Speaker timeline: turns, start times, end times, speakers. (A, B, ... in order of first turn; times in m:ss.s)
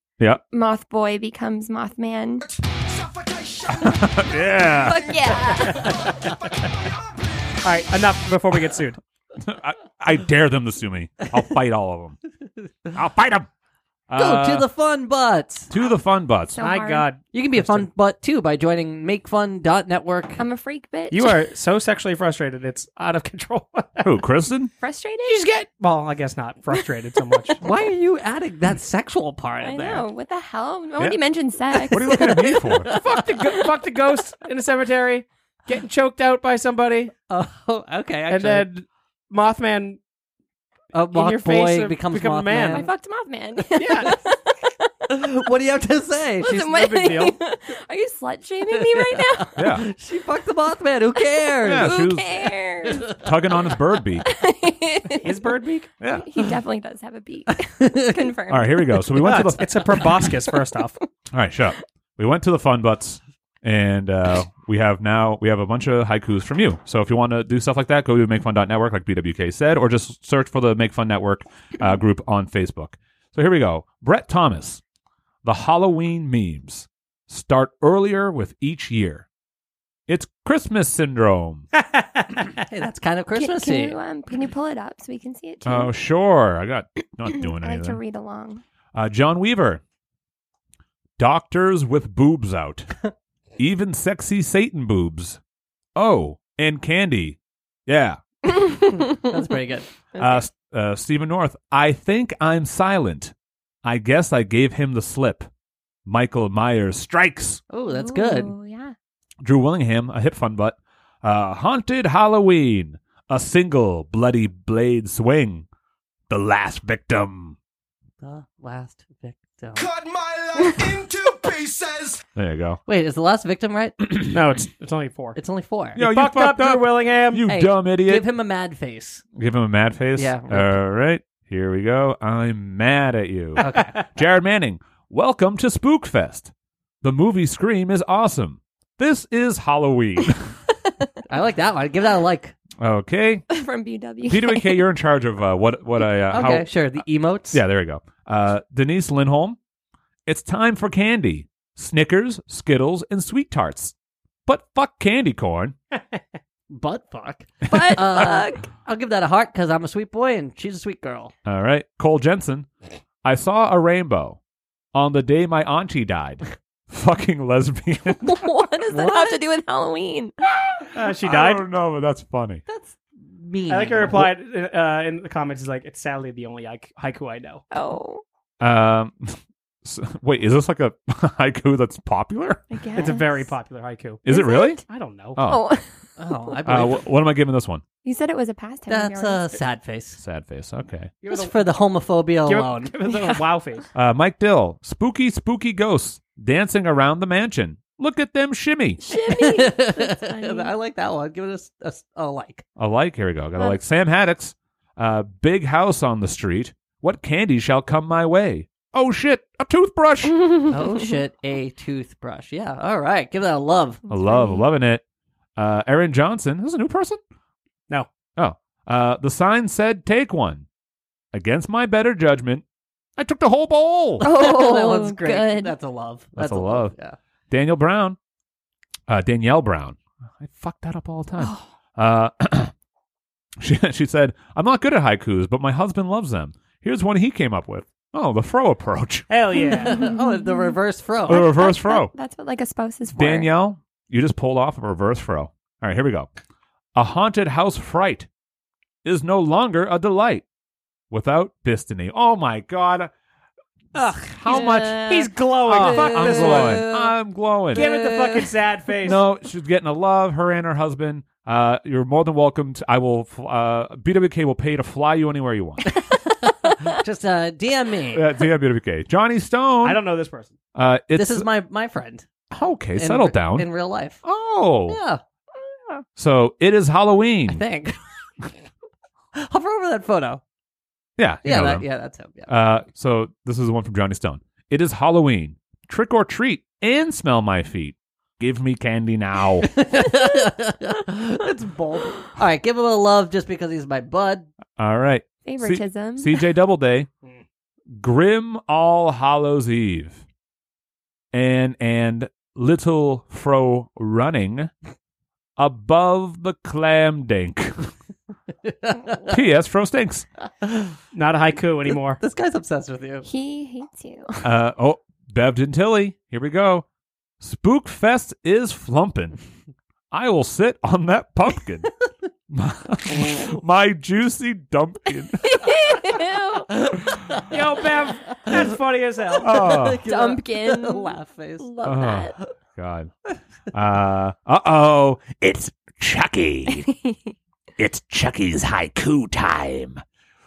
0:00.5-0:02.4 A
0:02.5-0:04.6 B
0:03.8-0:05.1 C
0:04.8-0:06.0 A
0:06.2-0:07.6 B
0:07.6-0:09.0 D
0:09.4-0:12.2 C
0:12.9-0:13.5 C
0:14.1-0:14.7 C
0:14.2-0:15.7 E
0:15.7-0:16.6 C
0:16.6-0:17.1 A
0:16.6-0:17.9 D
0:17.3-0:20.4 E
0:20.4-0:21.3 A
0:21.1-0:24.2 D
0:24.0-0:24.7 C
0:24.8-0:25.4 A
0:25.2-0:27.6 D
0:27.6-0:30.0 E
0:29.6-0:32.3 A
0:31.9-0:32.9 C
0:31.9-0:33.5 E
0:33.0-0:37.1 D
0:37.3-0:38.7 E
0:38.3-0:40.0 D
0:40.9-0:42.9 E
0:41.1-0:42.9 D
0:42.7-0:45.1 A
0:43.8-0:44.2 D
0:45.1-0:46.7 E
0:46.4-0:49.6 A
0:46.6-0:47.4 D
0:48.7-0:52.0 E
0:49.6-0:49.9 C
0:51.2-0:53.1 A
0:51.6-0:52.6 C
0:52.9-0:53.2 E
0:53.1-0:54.2 C
0:54.2-0:55.4 A
0:55.2-0:55.9 D
0:56.0-0:56.3 C
0:56.2-0:58.8 A
0:57.5-0:58.4 E
0:58.5-1:00.3 C
0:59.2-1:01.0 D
1:01.3-1:14.8 C
1:15.4-1:19.3 C
1:20.1-1:21.7 C
1:21.8-1:22.5 D
1:22.6-1:24.0 E
1:23.4-1:25.9 A
1:25.6-1:28.0 C
1:27.4-1:28.6 A
1:29.0-1:29.8 C
1:31.2-1:32.9 C
1:33.6-1:35.4 C
1:36.0-1:38.2 C
1:38.5-1:39.2 A
1:38.9-1:40.4 E
1:40.2-1:45.5 C
1:46.0-1:47.6 C
1:47.7-1:48.5 E
1:47.9-1:49.0 A
1:49.4-1:55.7 C
1:56.3-1:57.6 C
1:58.2-1:59.9 E
1:59.8-2:02.2 B
2:02.4-2:02.8 C
2:02.9-2:04.2 E
2:04.3-2:05.4 D
2:05.4-2:06.0 E
2:06.0-2:08.3 C
2:06.0-2:07.5 D
2:07.5-2:09.2 E
2:09.4-2:20.5 C
2:10.2-2:10.7 E
2:13.6-2:14.0 D
2:13.6-2:14.0 E
2:21.3-2:22.6 E
2:22.8-2:23.5 C
2:23.5-2:24.8 A
2:24.2-2:29.6 C
2:26.3-2:27.6 E
2:30.3-2:33.9 C
2:34.5-2:35.8 C
2:36.7-2:41.3 E
2:37.7-2:38.7 A
2:37.8-2:38.2 C
2:41.5-2:42.7 C
2:43.2-2:44.4 C
2:44.9-2:48.5 C
2:48.2-2:50.3 A
2:48.9-2:49.3 E
2:51.0-2:51.6 D
2:51.2-2:52.6 C
2:52.7-2:54.3 E
2:53.7-2:57.6 D
2:57.7-2:58.2 A
2:58.6-3:02.7 C
3:02.7-3:03.5 A
3:03.0-3:04.2 D
3:04.2-3:04.8 C
3:04.3-3:04.8 A
3:04.9-3:05.4 D
3:05.4-3:05.7 C
3:05.4-3:06.9 A
3:06.2-3:07.0 E
3:06.6-3:07.8 C
3:08.0-3:09.6 A
3:08.9-3:10.2 E
3:10.2-3:11.1 C
3:11.2-3:12.9 E
3:11.2-3:11.6 D
3:12.4-3:13.8 D
3:13.1-3:13.4 A
3:14.0-3:19.0 C
3:19.0-3:20.7 A
3:19.3-3:22.6 E
3:22.8-3:30.5 C
3:30.3-3:31.1 A
3:30.6-3:34.0 E
3:34.1-3:35.0 C
3:34.1-3:34.6 A
3:35.6-3:37.2 C
3:38.4-3:40.7 C
3:41.3-3:42.6 C
3:43.2-3:44.2 C
3:44.2-3:47.2 E
3:44.2-3:45.8 A
3:46.4-3:47.0 C
3:47.5-3:48.2 C
3:49.1-3:52.7 C
3:53.6-3:59.3 C
3:59.3-4:00.0 D
3:59.6-4:03.5 A
3:59.8-4:01.5 E
4:01.3-4:02.1 C
4:03.2-4:06.3 C
4:07.0-4:08.3 C
4:09.0-4:10.4 C
4:11.1-4:13.1 C
4:14.0-4:16.9 D
4:14.3-4:17.9 C
4:14.5-4:15.1 E
4:15.7-4:17.1 E
4:17.7-4:19.2 D
4:17.8-4:18.4 E
4:19.0-4:25.9 C
4:26.0-4:28.3 E
4:28.1-4:30.0 C
4:29.8-4:30.6 D
4:30.8-4:31.5 C
4:31.2-4:32.3 E
4:32.5-4:33.7 C
4:33.0-4:34.2 E
4:34.2-4:35.0 C
4:34.9-4:35.2 E
4:36.2-4:37.6 C
4:37.5-4:38.0 E
4:39.4-4:40.4 E
4:41.2-4:41.9 C
4:41.4-4:42.5 E
4:42.5-4:49.7 C
4:49.6-4:54.5 E
4:54.8-4:57.1 C
4:55.4-4:56.4 A
4:57.9-5:00.2 C
5:01.3-5:04.7 C
5:05.6-5:07.9 C
5:08.6-5:09.4 E
5:09.3-5:10.3 C
5:10.6-5:10.9 E
5:11.1-5:12.2 D
5:12.2-5:13.3 E
5:13.2-5:14.4 A
5:14.4-5:16.8 C
5:17.4-5:19.4 C
5:20.1-5:21.9 C
5:22.5-5:25.7 C
5:25.4-5:26.7 A
5:26.9-5:27.5 E
5:27.5-5:29.5 D
5:29.4-5:31.7 E
5:29.4-5:30.0 C
5:30.0-5:32.4 A
5:31.8-5:33.1 C
5:33.7-5:36.9 C
5:36.7-5:37.3 A
5:37.8-5:40.0 C